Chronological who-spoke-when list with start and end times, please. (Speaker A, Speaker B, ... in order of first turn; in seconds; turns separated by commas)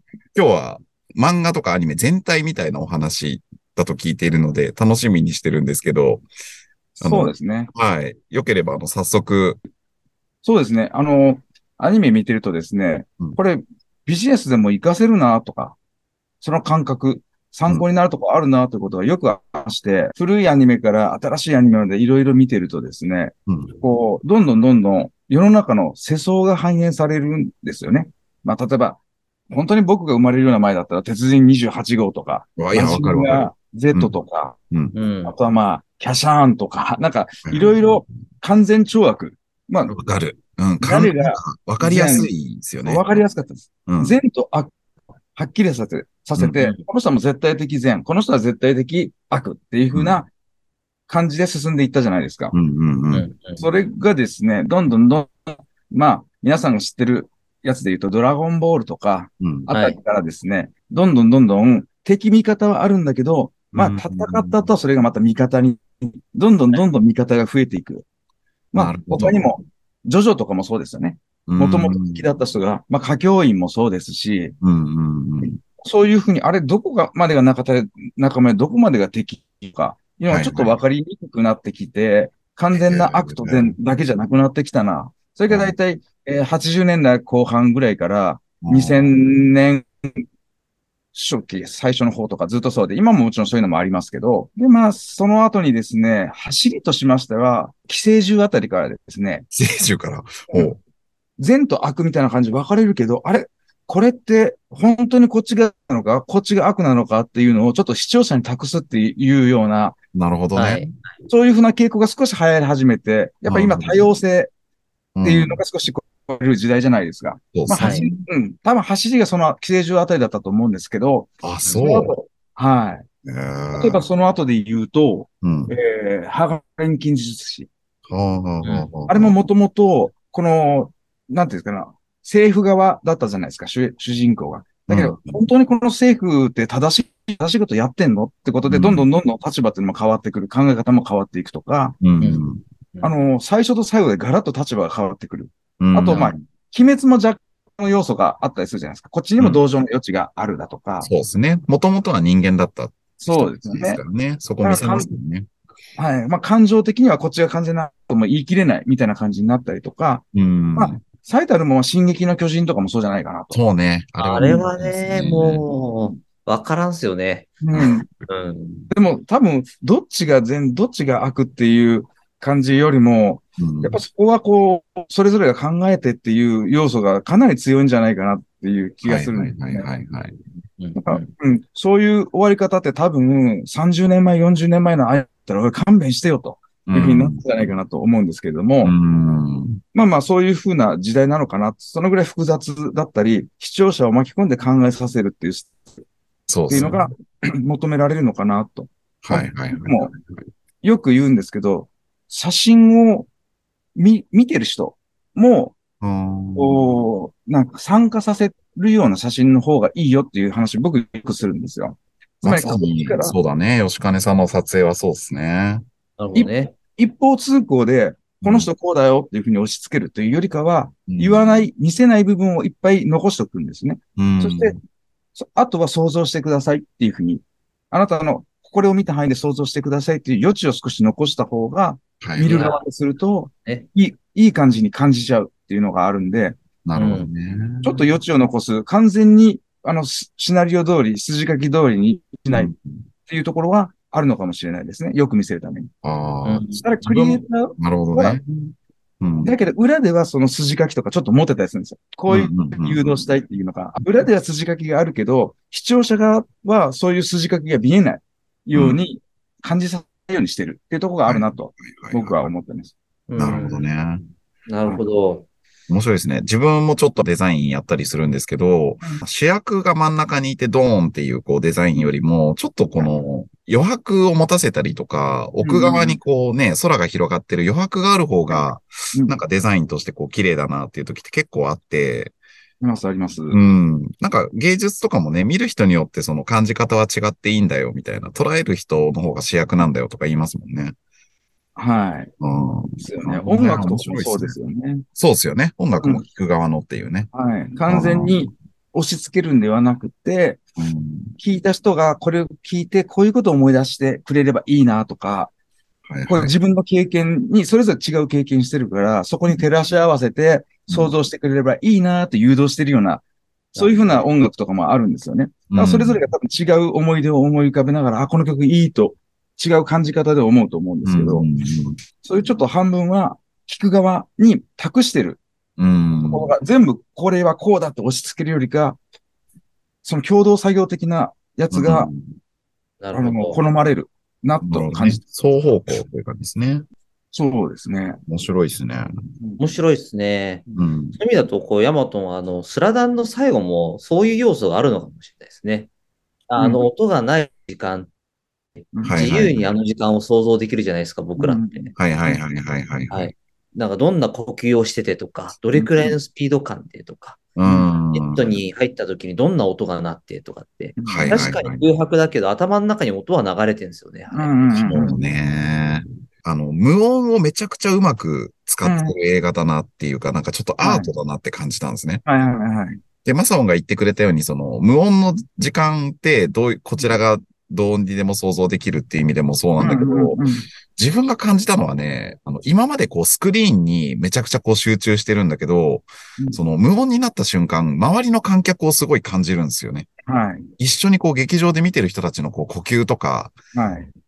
Speaker A: 0.3-6.2, Speaker B: 7.0-7.7, Speaker A: 7.0-9.6, Speaker B: 10.4-15.8, Speaker B: 16.4-29.0, Speaker A: 23.5-23.8, Speaker B: 29.5-34.6, Speaker A: 32.6-34.1, Speaker C: 34.9-35.3, Speaker B: 35.2-40.0, Speaker A: 37.5-37.9, Speaker A: 39.9-43.0, Speaker B: 40.8-42.3, Speaker B: 42.8-44.7, Speaker A: 43.9-44.2, Speaker B: 45.4-50.3, Speaker A: 49.9-50.2, Speaker B: 51.1-52.5, Speaker A: 52.5-53.3, Speaker C: 53.1-53.6, Speaker B: 53.6-68.0, Speaker A: 59.4-59.7, Speaker C: 59.7-60.0, Speaker A: 63.7-64.7, Speaker B: 68.7-74.5, Speaker A: 68.7-69.5, Speaker A: 71.5-72.2, Speaker A: 74.6-75.6, Speaker B: 75.4-90.1, Speaker A: 80.3-80.8, Speaker A: 82.7-83.8, Speaker A: 85.5-85.7, Speaker A: 88.6-89.1, Speaker B: 91.1-99.4, Speaker A: 99.5-100.8, Speaker B: 101.4-110.0, Speaker A: 110.1-110.9, Speaker C: 110.5-111.0, Speaker B: 111.3-114.5, Speaker A: 113.5-114.1, Speaker A: 115.1-115.6, Speaker B: 115.2-123.0, Speaker A: 117.5-118.2, Speaker C: 117.8-118.1, Speaker A: 121.4-122.1, Speaker A: 123.2-124.0, Speaker B: 123.7-127.7, Speaker A: 125.4-125.7, Speaker A: 128.1-129.3, Speaker B: 129.1-142.0, Speaker A: 134.9-135.4, Speaker A: 138.7-139.1, Speaker A: 142.0-142.6, Speaker C: 142.2-143.1, Speaker B: 143.0-151.1, Speaker A: 145.8-146.3, Speaker A: 151.0-155.5, Speaker B: 153.2-154.0, Speaker B: 154.6-155.1, Speaker B: 156.0-160.2, Speaker A: 160.3-161.0, Speaker B: 160.8-163.6, Speaker A: 163.5-165.7, Speaker C: 164.2-167.6, Speaker B: 167.6-168.1, Speaker C: 168.3-168.9, Speaker B: 168.9-179.9, Speaker A: 173.6-174.0, Speaker A: 179.0-180.4, Speaker C: 180.8-181.3, Speaker B: 181.0-188.9, Speaker A: 186.8-187.4, Speaker A: 188.8-189.8, Speaker B: 189.9-195.9, Speaker A: 196.5-197.0, Speaker B: 196.7-200.1, Speaker A: 199.2-200.4, Speaker B: 200.8-203.3, Speaker B: 203.9-205.8, Speaker A: 206.0-207.0, Speaker B: 206.6-213.3, Speaker A: 212.4-215.8, Speaker C: 216.2-216.8, Speaker B: 216.3-224.8, Speaker A: 218.4-218.7, Speaker A: 221.1-221.4, Speaker A: 224.2-224.8, Speaker B: 225.3-236.6, Speaker A: 232.2-232.5, Speaker C: 232.4-232.8, Speaker A: 236.8-238.0, Speaker C: 236.9-237.3, Speaker B: 237.8-242.7, Speaker A: 242.5-243.0, Speaker B: 243.3-245.9, Speaker A: 246.0-249.5, Speaker C: 246.4-246.8, Speaker B: 246.8-248.4, Speaker B: 249.4-262.9, Speaker A: 252.3-253.2, Speaker A: 258.7-259.0, Speaker A: 261.2-262.4, Speaker C: 263.3-263.8, Speaker A: 263.4-264.2, Speaker C: 264.7-265.4, Speaker A: 265.9-282.3, Speaker B: 275.6-276.2, Speaker B: 282.8-283.6, Speaker A: 283.5-290.9, Speaker B: 291.8-292.3, Speaker A: 292.4-294.6, Speaker B: 293.0-295.0, Speaker A: 295.1-297.3, Speaker B: 297.3-300.6, Speaker A: 297.9-298.5, Speaker A: 300.8-301.3, Speaker B: 301.4-305.5, Speaker A: 306.1-306.5, Speaker B: 306.3-313.2, Speaker B: 313.7-321.4, Speaker A: 315.7-316.2, Speaker A: 321.0-322.0, Speaker B: 322.2-325.4, Speaker A: 325.8-326.5, Speaker B: 326.2-329.0, Speaker B: 330.0-332.1, Speaker A: 331.7-332.3, Speaker C: 333.0-333.6, Speaker B: 333.1-335.2, Speaker A: 334.6-336.8, Speaker B: 337.3-338.2, Speaker A: 338.3-339.1, Speaker B: 339.4-339.7, Speaker C: 339.6-340.6, Speaker A: 340.8-341.2, Speaker C: 341.2-345.9, Speaker C: 346.5-348.1, Speaker B: 346.6-346.8, Speaker B: 348.9-349.2, Speaker A: 349.0-349.7, Speaker C: 349.1-351.9, Speaker B: 351.4-352.4, Speaker A: 351.9-353.3, Speaker C: 353.1-357.4, Speaker B: 355.7-356.1, Speaker A: 357.6-358.6, Speaker B: 357.6-357.9, Speaker C: 358.1-364.9, Speaker B: 361.0-361.5, Speaker A: 361.1-361.9, Speaker B: 364.3-365.2, Speaker A: 364.9-372.2, Speaker B: 368.8-369.1, Speaker B: 370.8-371.1, Speaker B: 372.2-373.0, Speaker A: 373.2-380.4, Speaker B: 379.8-380.7, Speaker A: 380.9-390.1, Speaker B: 390.3-390.7, Speaker A: 390.8-393.6, Speaker B: 393.7-394.1